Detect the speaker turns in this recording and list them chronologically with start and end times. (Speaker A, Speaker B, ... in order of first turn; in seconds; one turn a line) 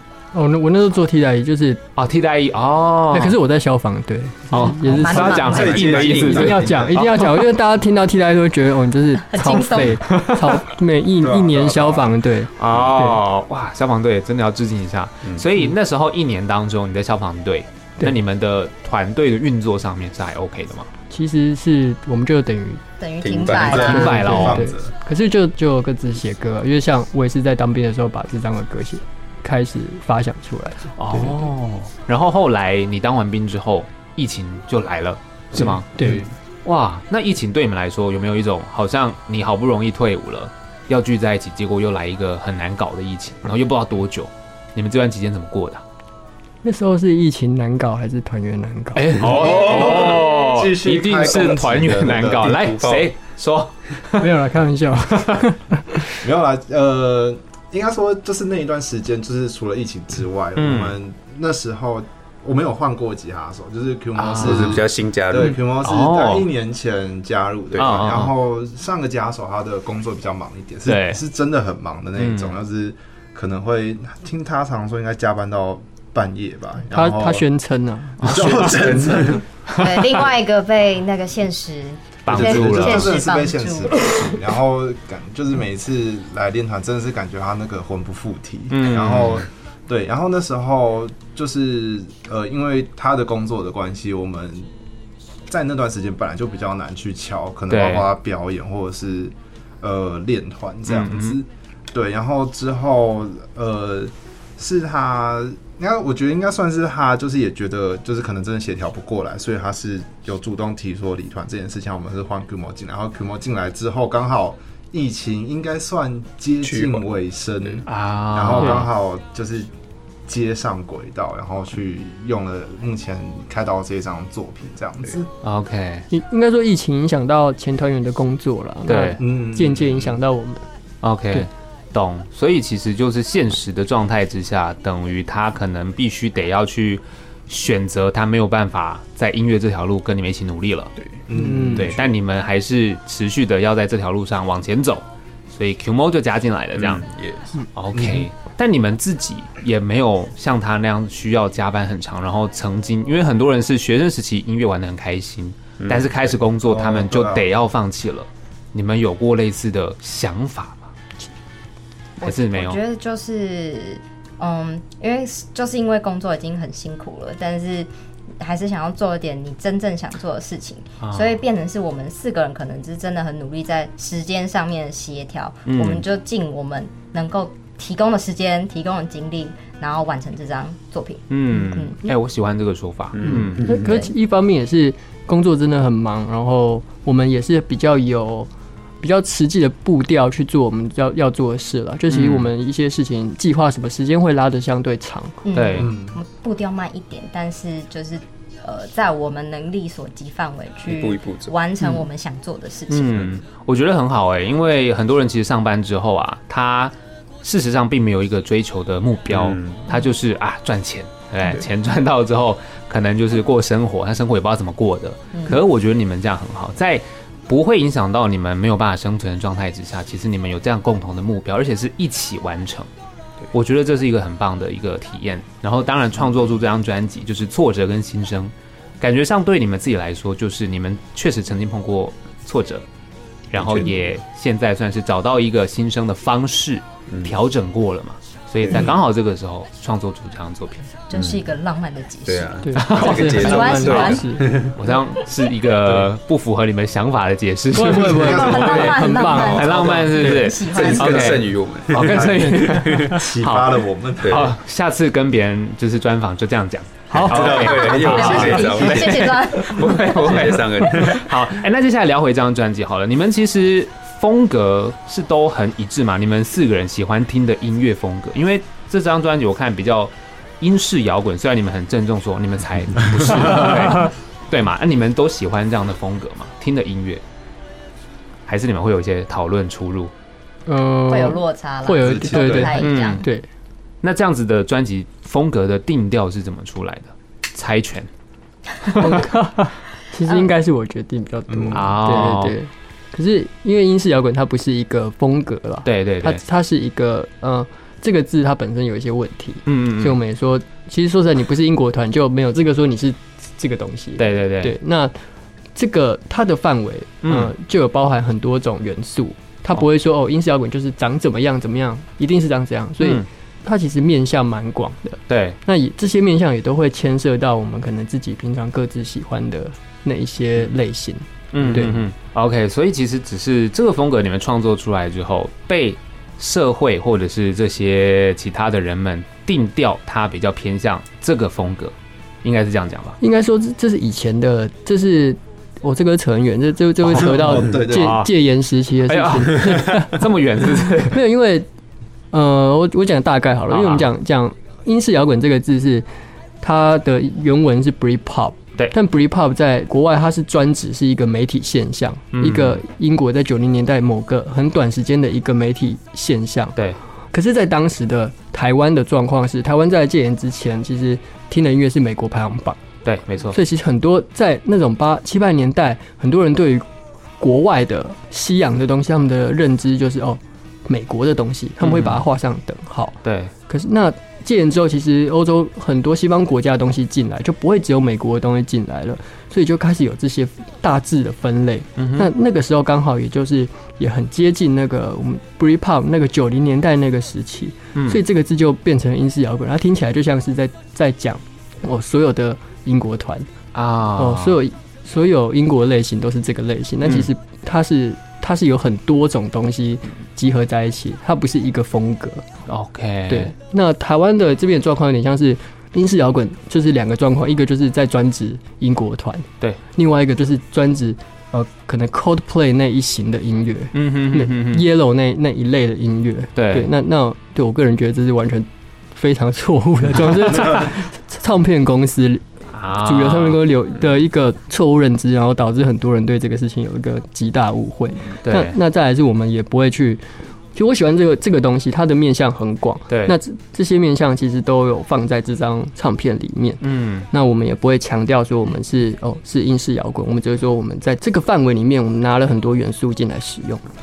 Speaker A: 0.3-1.8
Speaker B: 1.9-3.4
Speaker A: 3.1-5.5
Speaker B: 4.5-7.4
Speaker C: 4.5-6.1
Speaker D: 5.3-7.0
Speaker E: 5.7-6.7
Speaker A: 6.3-13.2
Speaker C: 9.2-10.1
Speaker B: 10.1-10.6
Speaker D: 11.2-12.1
Speaker B: 12.6-20.9
Speaker A: 21.1-22.8
Speaker C: 23.0-24.1
Speaker E: 23.2-23.8
Speaker D: 23.5-24.9
Speaker B: 23.6-24.6
Speaker A: 23.8-31.4
Speaker B: 31.0-45.8
Speaker A: 36.0-36.2
Speaker A: 46.6-49.2
Speaker B: 48.9-54.3
Speaker D: 49.2-52.6
Speaker C: 49.7-50.3
Speaker E: 52.4-53.1
Speaker A: 54.2-56.2
Speaker B: 55.1-55.4
Speaker D: 56.2-77.4
Speaker B: 60.5-61.0
Speaker B: 64.2-64.8
Speaker E: 64.4-65.6
Speaker B: 65.8-66.5
Speaker B: 67.8-68.3
Speaker B: 70.8-71.2
Speaker B: 72.2-72.5
Speaker A: 76.9-78.5
Speaker D: 78.2-79.4
Speaker B: 78.2-78.8
Speaker B: 79.7-80.1
Speaker C: 79.7-84.4
Speaker B: 82.2-83.2
Speaker D: 82.3-94.7
Speaker B: 88.7-89.5
Speaker D: 95.5-119.7
Speaker B: 97.7-98.1
Speaker B: 100.9-101.4
Speaker E: 116.6-117.0
Speaker B: 117.9-118.9
Speaker D: 120.2-125.3
Speaker B: 125.4-126.1
Speaker A: 126.1-130.6
Speaker B: 128.8-129.2
Speaker D: 129.2-130.0
Speaker B: 131.0-140.9
Speaker D: 141.3-142.0
Speaker A: 141.3-141.9
Speaker B: 141.7-147.1
Speaker E: 146.8-147.5
Speaker B: 147.7-160.9
Speaker D: 147.9-148.2
Speaker E: 155.8-156.1
Speaker D: 156.6-157.5
Speaker C: 162.2-182.0
Speaker B: 162.2-162.8
Speaker B: 171.0-171.4
Speaker B: 175.7-176.0
Speaker B: 181.3-183.7
Speaker E: 183.2-183.9
Speaker A: 183.2-188.5
Speaker C: 183.8-184.1
Speaker A: 189.0-195.4
Speaker B: 192.1-192.5
Speaker C: 195.4-203.3
Speaker B: 195.5-195.9
Speaker D: 195.8-196.2
Speaker E: 200.8-201.5
Speaker B: 202.9-222.9
Speaker E: 209.3-209.9
Speaker C: 215.3-215.6
Speaker B: 223.5-232.8
Speaker B: 233.5-240.9
Speaker E: 233.6-233.9
Speaker E: 237.1-237.3
Speaker E: 238.6-238.9
Speaker C: 241.1-244.2
Speaker E: 241.1-241.5
Speaker E: 242.2-244.8
Speaker A: 242.6-244.5
Speaker B: 242.8-244.0
Speaker B: 244.7-277.2
Speaker A: 247.7-250.5
Speaker C: 248.0-251.4
Speaker D: 248.1-248.8
Speaker E: 249.4-253.2
Speaker D: 251.9-254.5
Speaker A: 252.5-253.0
Speaker E: 254.2-254.5
Speaker A: 257.1-258.6
Speaker E: 257.2-261.3
Speaker D: 257.4-257.9
Speaker C: 258.1-260.4
Speaker B: 278.5-280.1
Speaker A: 280.7-283.5
Speaker C: 281.1-283.2
Speaker D: 282.0-282.8
Speaker B: 282.8-283.2
Speaker B: 284.0-288.1
Speaker B: 288.8-289.1
Speaker A: 288.9-305.1
Speaker B: 291.7-292.5
Speaker B: 295.8-296.4
Speaker B: 299.6-300.2
Speaker B: 304.2-304.8
Speaker A: 305.7-322.0
Speaker B: 307.2-307.5
Speaker B: 313.0-313.2
Speaker B: 315.3-315.6
Speaker B: 321.5-333.2
Speaker A: 333.2-340.2
Speaker D: 337.1-338.2
Speaker B: 337.1-338.3
Speaker B: 339.1-341.2
Speaker A: 340.9-341.7
Speaker A: 342.3-346.1
Speaker B: 343.7-344.1
Speaker A: 346.6-356.8
Speaker B: 352.3-352.8
Speaker A: 357.3-362.8
Speaker B: 363.0-363.6
Speaker A: 363.5-366.9
Speaker A: 367.4-393.5
Speaker B: 371.8-372.2
Speaker B: 373.2-373.5
Speaker B: 382.0-382.3
Speaker B: 387.9-388.2
Speaker B: 393.7-394.6
Speaker A: 394.1-402.4
Speaker B: 402.7-403.5
Speaker A: 403.3-422.4
Speaker B: 413.9-414.9
Speaker B: 416.6-416.9
Speaker D: 420.6-420.9
Speaker B: 422.7-423.6
Speaker A: 422.9-430.2
Speaker B: 428.4-428.8
Speaker A: 430.7-443.8
Speaker B: 433.1-433.4
Speaker B: 436.8-437.3